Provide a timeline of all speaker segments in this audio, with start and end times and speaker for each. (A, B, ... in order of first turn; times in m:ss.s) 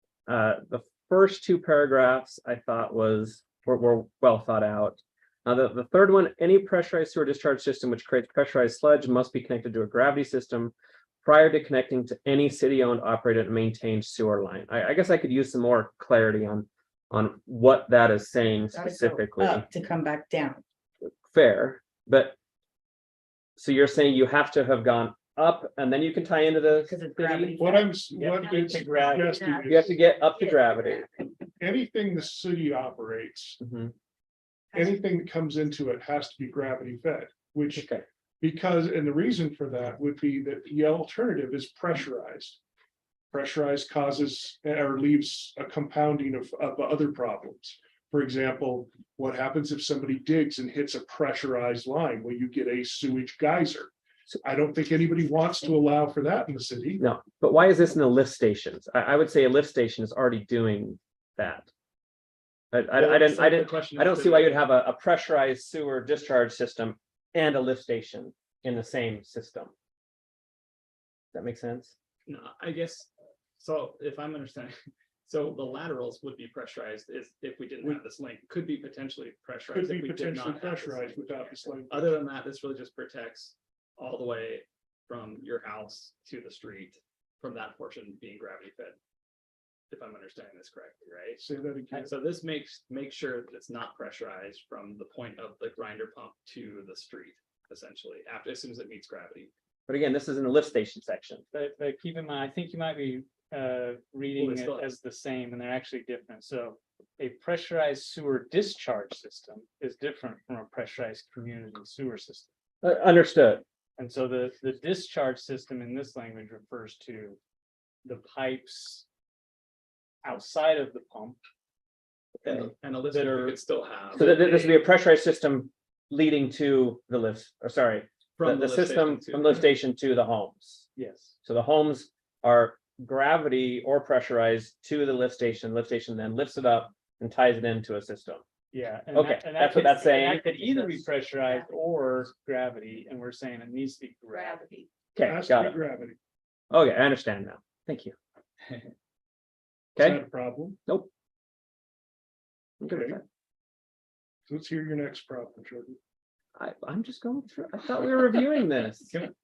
0:00.3-0:19.6 A
0:18.7-0:20.6 B
0:21.0-0:22.3 A
0:23.6-0:27.6 A
0:26.8-0:28.0 B
0:27.6-0:30.0 C
0:28.2-0:31.1 A
0:28.6-0:29.6 B
0:31.6-0:33.6 C
0:33.6-0:33.9 A
0:34.7-0:35.0 B
0:34.7-0:37.9 C
0:37.7-0:38.0 A
0:38.4-0:42.6 C
0:43.3-0:53.9 C
0:54.4-0:57.0 C
0:57.0-1:01.7 A
1:02.7-1:09.7 A
1:02.9-1:04.6 D
1:11.3-1:11.9 A
1:12.2-1:14.7 D
1:15.2-1:29.0 D
1:19.7-1:22.2 C
1:29.9-1:31.4 D
1:31.4-1:32.1 C
1:32.0-1:39.5 D
1:39.9-1:41.4 A
1:41.5-1:52.5 E
1:44.4-1:44.9 D
1:52.8-1:53.6 A
1:54.0-1:57.4 E
1:58.0-1:59.0 E
2:00.2-2:01.4 E
2:02.4-2:04.8 D
2:03.1-2:03.6 E
2:04.1-2:10.9 A
2:08.4-2:09.7 D
2:10.9-2:11.4 E
2:11.4-2:18.4 A
2:18.7-2:24.7 E
2:19.1-2:21.0 A
2:24.3-2:24.6 B
2:25.1-2:25.8 A
2:25.2-2:26.2 C
2:26.7-2:28.1 A
2:30.0-2:30.2 A
2:30.0-2:30.8 C
2:32.8-2:33.2 A
2:32.9-2:33.2 C
2:34.5-2:36.0 C
2:36.6-2:39.1 A